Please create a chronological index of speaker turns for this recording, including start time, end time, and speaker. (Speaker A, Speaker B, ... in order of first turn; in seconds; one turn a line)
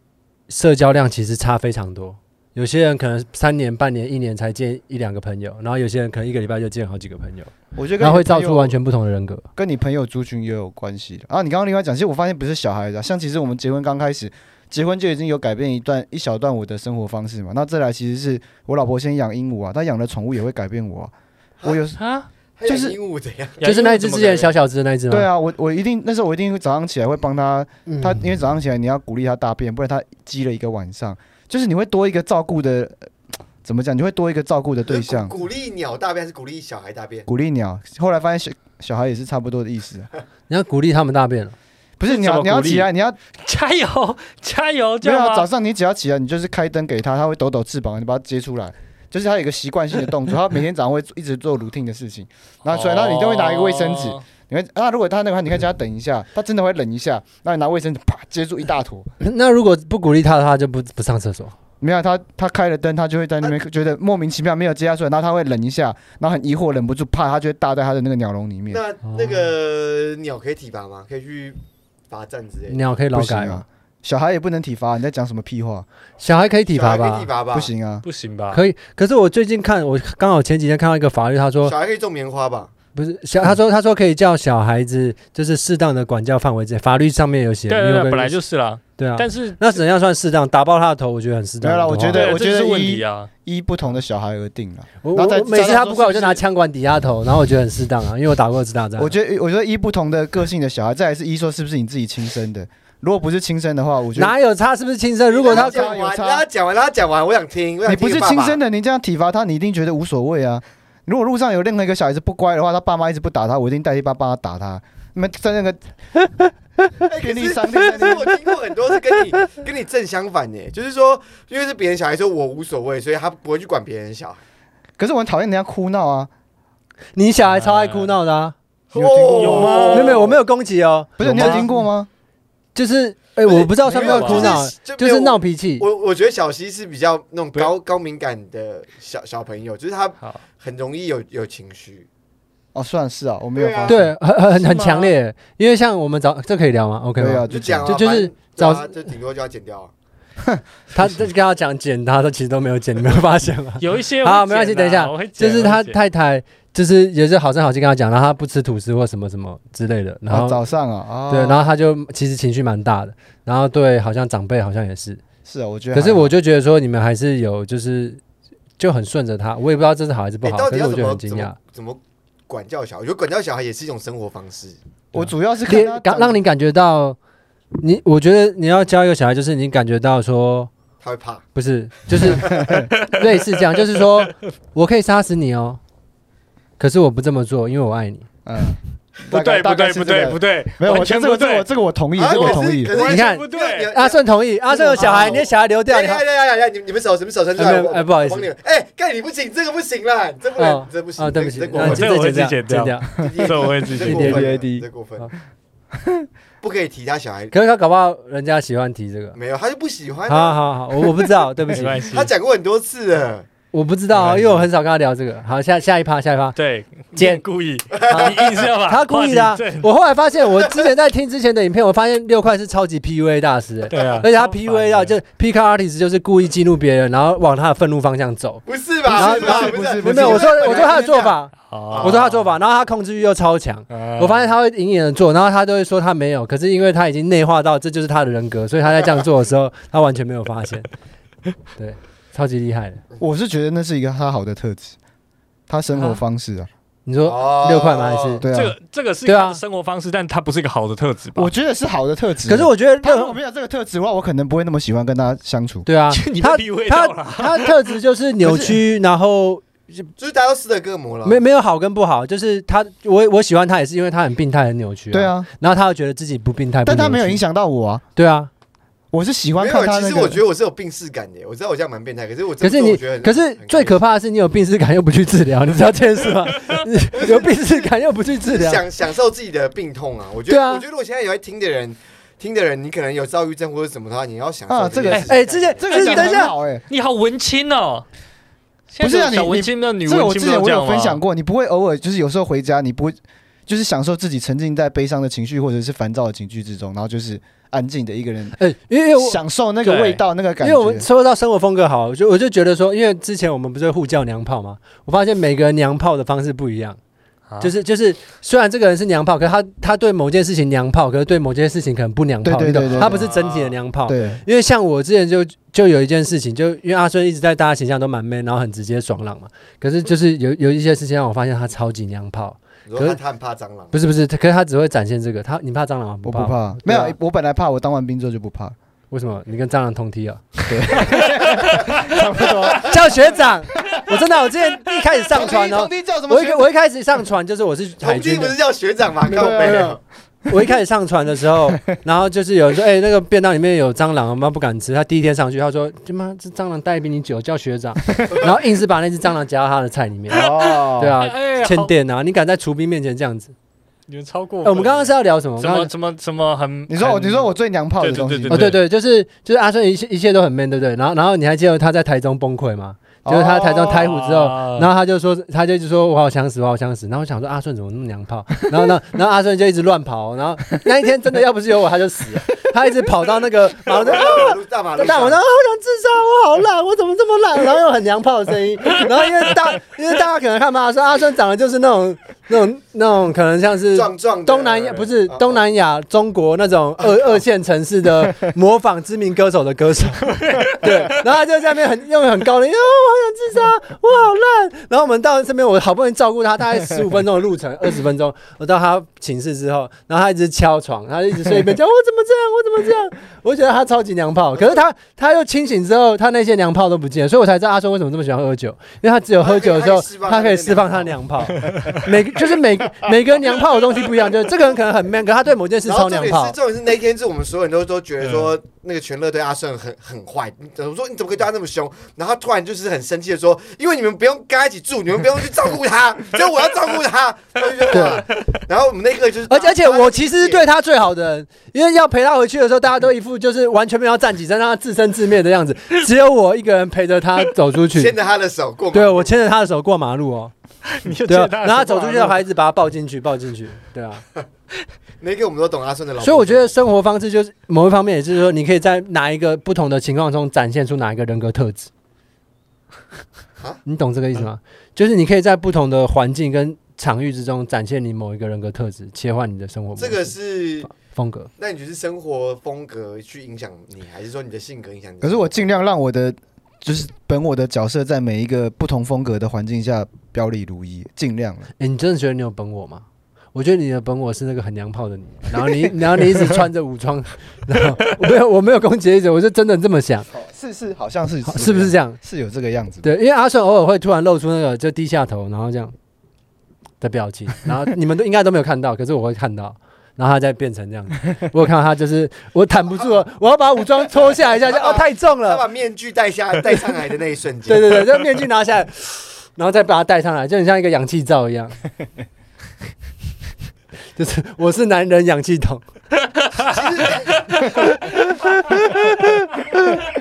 Speaker A: 0.5-9.5
Speaker B: 7.7-8.7
Speaker B: 9.6-21.1
Speaker B: 21.6-22.0
Speaker C: 22.0-22.3
Speaker D: 22.6-23.6
Speaker B: 22.6-23.0
Speaker C: 23.6-24.5
Speaker A: 23.6-25.3
Speaker B: 25.1-33.1
Speaker A: 27.9-28.3
Speaker B: 33.6-35.3
Speaker D: 34.9-37.3
Speaker B: 37.3-40.1
Speaker A: 40.5-41.5
Speaker B: 42.0-43.2
Speaker C: 42.1-42.9
Speaker C: 43.4-45.5
Speaker B: 45.0-59.1
Speaker C: 52.6-54.2
Speaker A: 59.2-61.5
Speaker B: 61.8-68.8
Speaker D: 68.7-71.6
Speaker A: 69.1-69.3
Speaker D: 72.1-72.9
Speaker A: 72.7-73.6
Speaker B: 73.1-75.8
Speaker A: 76.2-77.3
Speaker D: 76.7-77.7
Speaker B: 77.5-78.0
Speaker C: 78.0-78.6
Speaker A: 78.5-81.7
Speaker D: 81.6-82.7
Speaker A: 82.9-88.4
Speaker C: 87.7-89.8
Speaker A: 89.0-92.3
Speaker B: 91.6-96.4
Speaker C: 92.1-93.3
Speaker A: 95.0-99.1
Speaker B: 99.0-104.3
Speaker A: 104.1-105.9
Speaker D: 105.3-108.6
Speaker B: 105.4-106.4
Speaker B: 107.8-115.9
Speaker D: 117.0-124.4
Speaker B: 117.1-118.3
Speaker B: 125.0-126.3
Speaker A: 127.2-128.5
Speaker C: 127.5-128.2
Speaker D: 128.9-130.4
Speaker B: 128.9-129.9
Speaker C: 129.3-130.3
Speaker A: 129.9-131.8
Speaker B: 131.2-132.1
Speaker C: 131.2-131.7
Speaker A: 132.7-135.8
Speaker D: 133.4-142.1
Speaker C: 133.9-134.6
Speaker B: 142.7-144.1
Speaker D: 143.5-144.0
Speaker A: 143.9-148.9
Speaker C: 144.5-145.1
Speaker B: 147.2-148.0
Speaker D: 147.5-149.9
Speaker B: 150.4-151.1
Speaker A: 150.9-160.6
Speaker C: 153.8-156.0
Speaker B: 160.3-161.7
Speaker A: 161.3-165.2
Speaker B: 165.4-166.3
Speaker A: 165.9-168.2
Speaker A: 168.8-171.6
Speaker D: 170.4-174.8
Speaker B: 175.1-176.4
Speaker A: 175.1-177.2
Speaker A: 177.8-180.7
Speaker D: 181.0-181.4
Speaker A: 181.5-185.8
Speaker D: 182.1-182.5
Speaker B: 182.5-182.9
Speaker C: 183.0-183.3
Speaker C: 183.9-184.3
Speaker A: 186.8-188.3
Speaker B: 188.4-192.9
Speaker C: 189.3-191.7
Speaker D: 192.2-202.1
Speaker C: 192.3-193.9
Speaker A: 193.0-196.2
Speaker A: 197.6-198.5
Speaker A: 200.6-203.1
Speaker C: 201.7-204.4
Speaker D: 203.2-205.3
Speaker A: 204.0-204.5
Speaker B: 204.1-204.8
Speaker D: 206.6-207.5
Speaker A: 207.5-209.4
Speaker D: 209.3-210.6
Speaker A: 210.3-212.0
Speaker C: 211.7-212.3
Speaker D: 212.0-213.5
Speaker A: 213.7-216.6
Speaker C: 214.2-214.7
Speaker C: 216.6-219.9
Speaker A: 217.1-217.4
Speaker D: 217.9-218.7
Speaker A: 218.8-240.9
Speaker C: 223.9-225.1
Speaker D: 223.9-224.2
Speaker D: 228.7-231.4
Speaker B: 229.1-231.1
Speaker C: 231.7-232.3
Speaker D: 231.9-232.4
Speaker C: 233.9-234.5
Speaker A: 241.8-243.0
Speaker B: 243.2-244.9
Speaker B: 245.7-246.7
Speaker A: 247.1-248.4
Speaker D: 247.2-248.4
Speaker B: 248.4-248.7
Speaker C: 248.5-251.5
Speaker A: 249.2-249.6
Speaker B: 251.3-255.9
Speaker A: 252.4-253.3
Speaker A: 255.8-260.1
Speaker C: 256.1-257.8
Speaker B: 258.4-258.8
Speaker D: 260.2-261.4
Speaker A: 261.2-267.4
Speaker B: 265.1-265.5
Speaker B: 266.8-268.0
Speaker A: 268.1-268.5
Speaker B: 269.1-270.4
Speaker D: 269.6-274.0
Speaker A: 272.6-278.8
Speaker D: 277.1-286.0
Speaker A: 280.5-280.8
Speaker B: 284.7-286.8
Speaker A: 285.1-286.5
Speaker C: 285.9-288.1
Speaker C: 288.9-291.2
Speaker B: 289.0-298.6
Speaker A: 298.6-299.4
Speaker B: 299.2-301.1
Speaker C: 299.8-300.2
Speaker A: 300.6-307.0
Speaker C: 307.5-307.7
Speaker A: 307.6-323.2
Speaker B: 312.4-313.3
Speaker D: 312.9-313.8
Speaker B: 314.1-314.4
Speaker D: 322.9-323.9
Speaker A: 323.9-327.1
Speaker B: 326.2-328.7
Speaker A: 329.1-331.2
Speaker B: 330.7-333.0
Speaker C: 331.1-332.8
Speaker A: 332.7-338.6
Speaker B: 335.3-336.7
Speaker D: 338.0-340.0
Speaker A: 339.2-339.9
Speaker B: 339.3-339.9
Speaker A: 340.5-353.5
Speaker B: 350.3-351.2
Speaker C: 350.4-351.9
Speaker C: 354.1-358.8
Speaker A: 354.6-355.9
Speaker B: 356.9-358.7
Speaker A: 358.5-416.6
Speaker B: 363.2-364.1
Speaker C: 363.9-364.9
Speaker D: 373.9-375.4
Speaker D: 383.9-385.6
Speaker D: 387.0-387.4
Speaker C: 390.2-391.1
Speaker D: 409.4-411.6
Speaker C: 411.6-412.0
Speaker D: 415.8-430.6
Speaker A: 427.9-428.2
Speaker A: 429.5-438.1
Speaker D: 437.9-439.3
Speaker A: 438.9-440.5
Speaker C: 440.9-442.4
Speaker A: 441.2-444.2
Speaker D: 445.2-446.8
Speaker A: 446.2-451.9
Speaker A: 453.9-460.3
Speaker D: 460.0-460.9
Speaker A: 460.9-461.5
Speaker D: 461.6-465.7
Speaker B: 465.2-471.7
Speaker A: 471.8-480.3
Speaker B: 480.3-483.1
Speaker A: 481.4-482.2
Speaker A: 483.0-485.9
Speaker A: 487.0-495.6
Speaker D: 494.6-498.1
Speaker A: 497.6-501.8
Speaker A: 504.1-505.8
Speaker D: 506.6-508.1
Speaker A: 507.7-510.0